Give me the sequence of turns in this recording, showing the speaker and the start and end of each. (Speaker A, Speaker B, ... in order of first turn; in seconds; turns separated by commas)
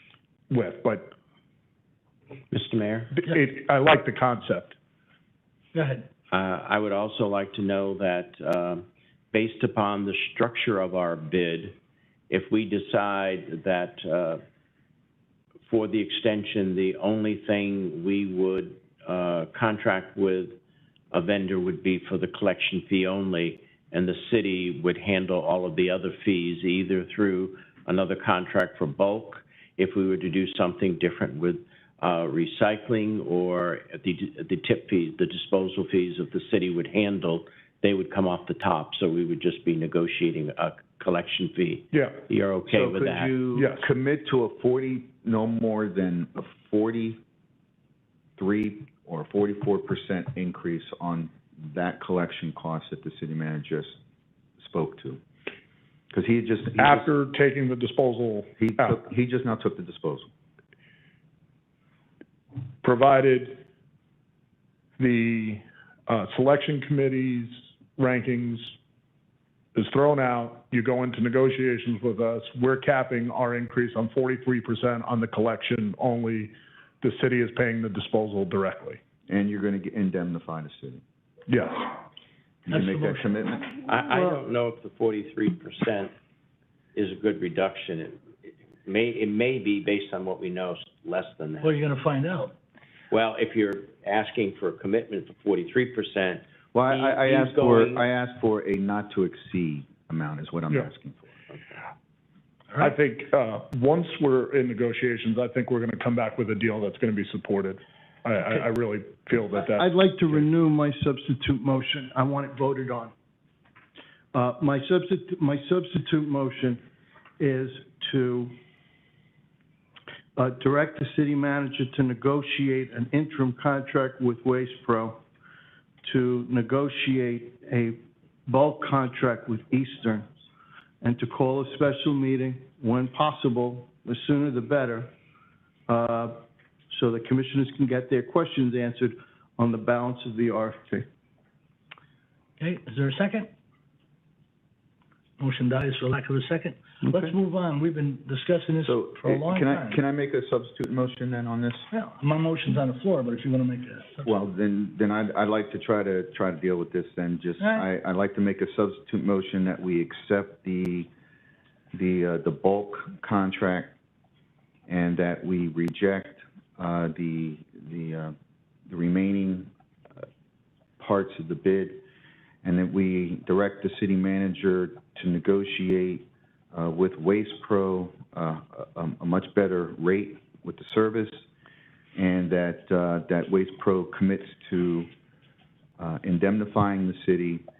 Speaker A: 0.5-1.1, Speaker B: 2.5-3.1, Speaker A: 3.2-4.8, Speaker C: 5.7-6.1, Speaker B: 6.3-11.8, Speaker B: 12.3-14.4, Speaker B: 15.7-20.6, Speaker B: 21.1-43.4, Speaker A: 41.9-42.2, Speaker D: 42.7-47.2, Speaker A: 43.5-43.8, Speaker D: 48.4-53.9, Speaker D: 54.6-55.2, Speaker D: 56.1-57.1, Speaker A: 56.8-59.0, Speaker D: 58.6-60.3, Speaker A: 62.8-63.6, Speaker A: 65.0-68.7, Speaker A: 69.7-79.0, Speaker D: 79.3-81.0, Speaker A: 81.5-82.0, Speaker D: 82.7-83.7, Speaker C: 82.7-83.5, Speaker B: 83.8-86.1, Speaker B: 86.9-91.7, Speaker C: 91.6-92.5, Speaker B: 93.1-98.1, Speaker D: 96.7-101.3, Speaker A: 102.8-110.4, Speaker E: 109.7-113.1, Speaker E: 114.3-116.8, Speaker E: 117.4-118.5, Speaker E: 120.3-125.2, Speaker E: 126.0-130.3, Speaker E: 131.0-135.1, Speaker E: 135.9-136.4, Speaker E: 136.9-141.1, Speaker C: 142.6-143.5, Speaker C: 145.4-150.0, Speaker D: 148.8-151.9, Speaker C: 151.9-154.3, Speaker D: 154.2-161.1, Speaker C: 157.6-157.9, Speaker D: 161.9-163.9, Speaker D: 164.9-168.3, Speaker D: 168.9-169.7, Speaker D: 171.0-172.0, Speaker D: 172.6-181.4, Speaker D: 182.2-185.1, Speaker D: 186.0-187.6